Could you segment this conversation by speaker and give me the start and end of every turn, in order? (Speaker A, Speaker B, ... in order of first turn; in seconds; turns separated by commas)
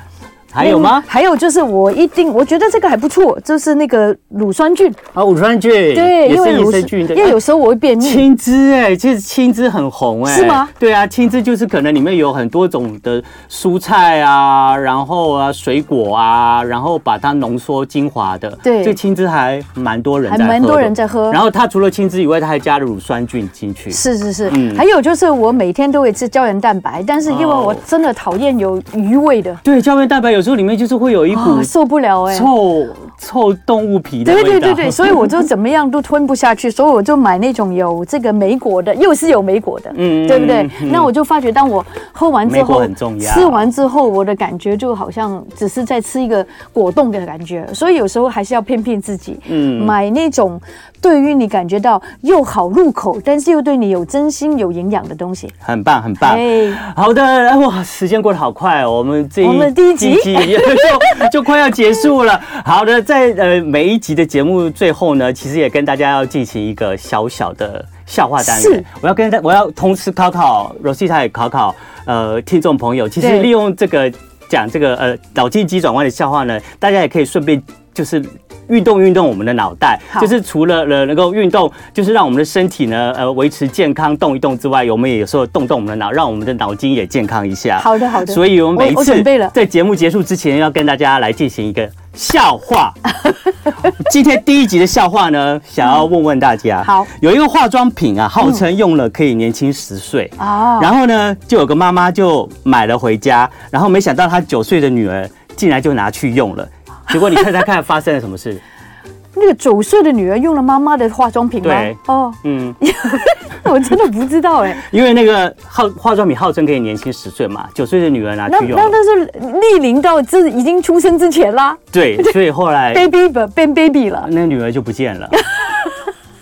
Speaker A: 0.5-1.1, Speaker B: 0.6-5.0, Speaker A: 5.1-7.4, Speaker B: 5.9-8.2, Speaker A: 8.0-24.8, Speaker B: 10.2-10.7, Speaker B: 18.6-19.0, Speaker B: 20.3-21.4, Speaker B: 23.9-29.6, Speaker A: 27.3-27.8, Speaker A: 29.6-31.7, Speaker B: 31.3-32.5, Speaker A: 32.3-35.4, Speaker B: 34.2-55.5, Speaker A: 39.9-41.1, Speaker A: 42.4-43.7, Speaker A: 49.5-49.9, Speaker A: 55.6-93.1, Speaker B: 56.2-56.8, Speaker B: 59.4-61.2, Speaker B: 68.4-68.8, Speaker B: 73.2-73.5, Speaker B: 87.8-89.5, Speaker A: 93.8-108.6, Speaker B: 96.8-97.1, Speaker B: 100.4-100.9, Speaker B: 109.3-114.8, Speaker A: 111.6-112.8, Speaker A: 114.8-118.9, Speaker B: 118.5-122.3, Speaker A: 121.9-123.1, Speaker B: 122.9-124.3, Speaker A: 124.2-125.4, Speaker B: 125.3-126.0